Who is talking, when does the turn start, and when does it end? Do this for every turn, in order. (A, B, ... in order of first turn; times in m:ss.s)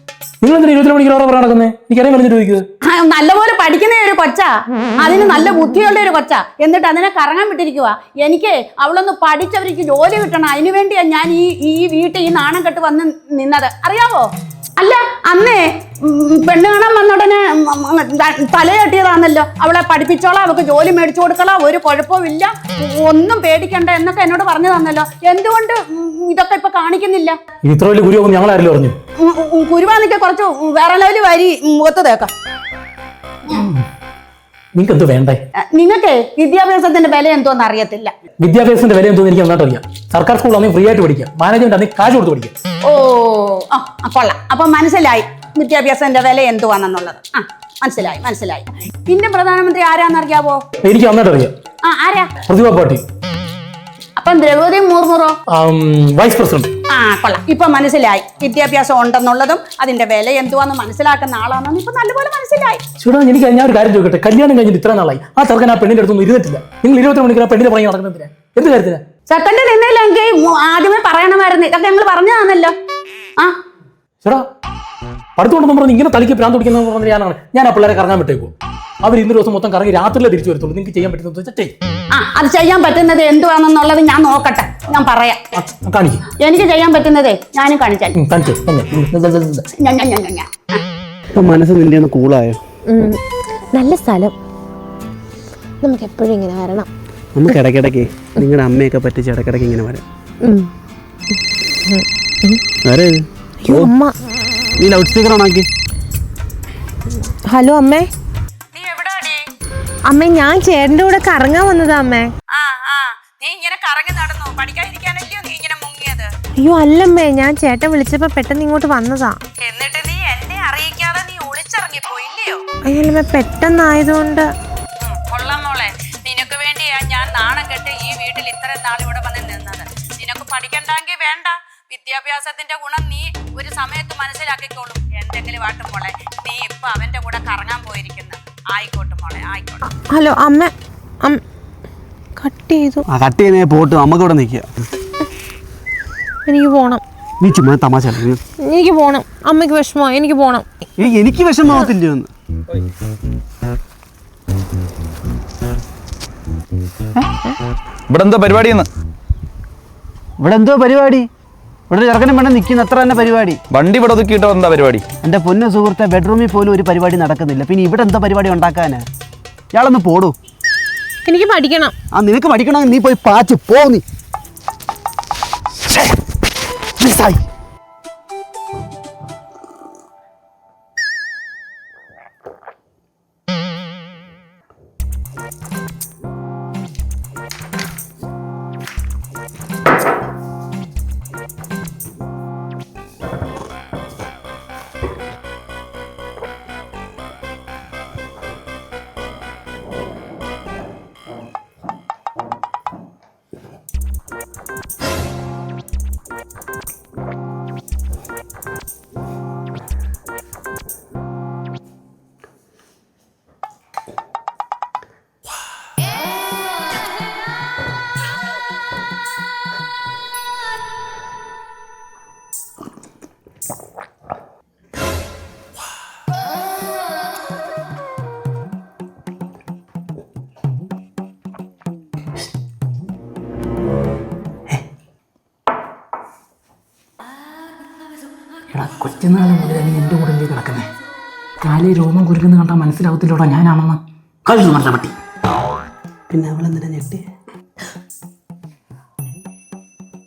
0:00.4-0:02.6 A
0:02.8-0:27.4 B
0:27.6-0:28.9 A
0:29.2-0:32.3 B
0:33.5-0:33.8 A
0:34.7-0:35.4 A
0:35.6-0:38.2 B
0:38.4-0:42.5 A
0:42.8-0:50.6 B
0:50.8-0:51.5 A
0:51.8-0:52.3 B
0:52.4-0:53.0 A
0:54.2-0:55.4 B
0:55.5-0:56.7 A
0:56.9-1:02.8 B
1:03.0-1:09.0 A
1:09.3-1:12.8 B
1:15.4-1:21.7 A
1:22.1-1:25.5 B
1:25.5-1:26.3 A
1:26.3-1:28.2 B
1:28.2-1:29.7 A
1:29.8-1:30.8 B
1:31.4-1:32.6 C
1:32.9-1:33.2 D
1:33.7-1:34.3 D
1:35.8-1:36.9 D
1:37.3-1:40.0 C
1:40.4-1:40.7 D
1:41.8-1:42.6 D
1:42.8-1:43.9 C
1:43.6-1:44.1 D
1:44.8-1:45.7 C
1:47.2-1:48.1 D
1:48.7-1:49.5 B
1:50.1-1:52.3 D
1:52.5-1:56.3 B
1:56.6-1:59.4 D
1:59.6-2:02.6 B
2:02.9-2:04.5 D
2:05.0-2:19.8 B
2:19.8-2:21.4 D
2:22.4-2:23.0 D
2:23.1-2:24.7 C
2:26.5-2:27.0 D
2:27.4-2:28.4 C
2:28.6-2:30.6 D
2:31.0-2:32.3 C
2:38.1-2:38.9 E
2:40.4-2:41.3 C
2:41.9-2:43.6 C
2:43.7-2:45.0 E
2:45.2-2:49.0 C
2:49.7-2:50.4 C
2:51.2-2:51.9 D
2:52.1-2:54.0 C
2:57.0-2:57.4 C
3:58.7-4:00.9 A
4:01.6-4:05.2 A
4:06.3-4:07.2 C